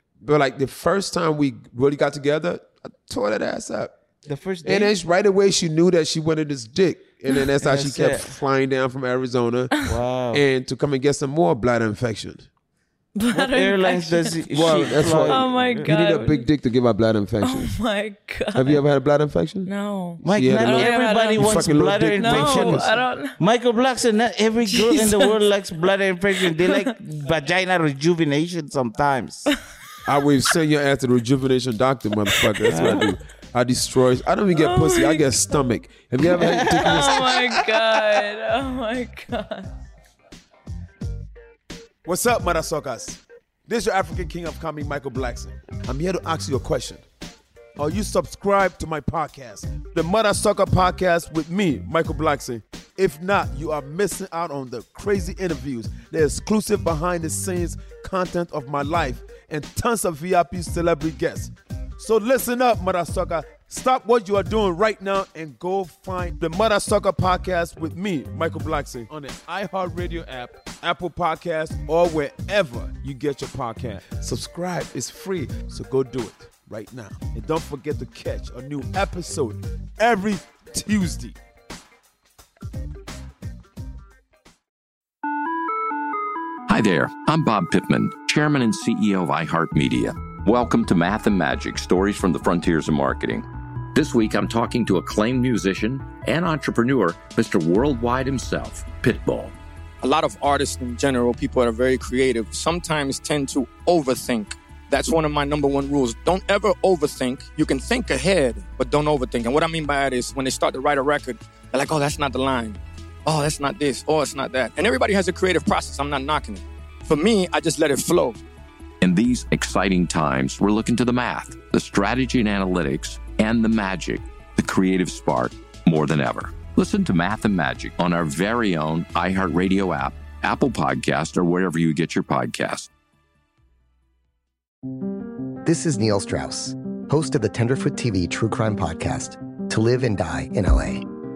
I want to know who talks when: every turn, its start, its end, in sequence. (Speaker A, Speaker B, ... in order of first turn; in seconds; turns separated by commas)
Speaker A: 0.2-3.9, Speaker B: 4.2-4.9, Speaker A: 4.6-9.7, Speaker B: 7.6-8.3, Speaker B: 9.8-10.4, Speaker A: 10.3-12.4, Speaker C: 13.2-14.4, Speaker B: 13.3-15.9, Speaker A: 14.5-17.7, Speaker C: 14.9-16.5, Speaker C: 17.4-18.8, Speaker A: 18.5-19.7, Speaker C: 19.6-23.4, Speaker B: 20.2-29.5, Speaker A: 20.2-23.0, Speaker C: 24.7-25.4, Speaker C: 26.6-26.9, Speaker A: 30.0-37.6, Speaker C: 32.3-33.0, Speaker B: 32.7-33.0, Speaker C: 34.5-35.2, Speaker B: 36.4-37.1, Speaker C: 36.6-39.7, Speaker D: 42.0-47.0, Speaker D: 47.8-81.3, Speaker E: 86.7-99.5, Speaker F: 100.0-118.4, Speaker E: 119.0-132.9, Speaker G: 135.6-141.0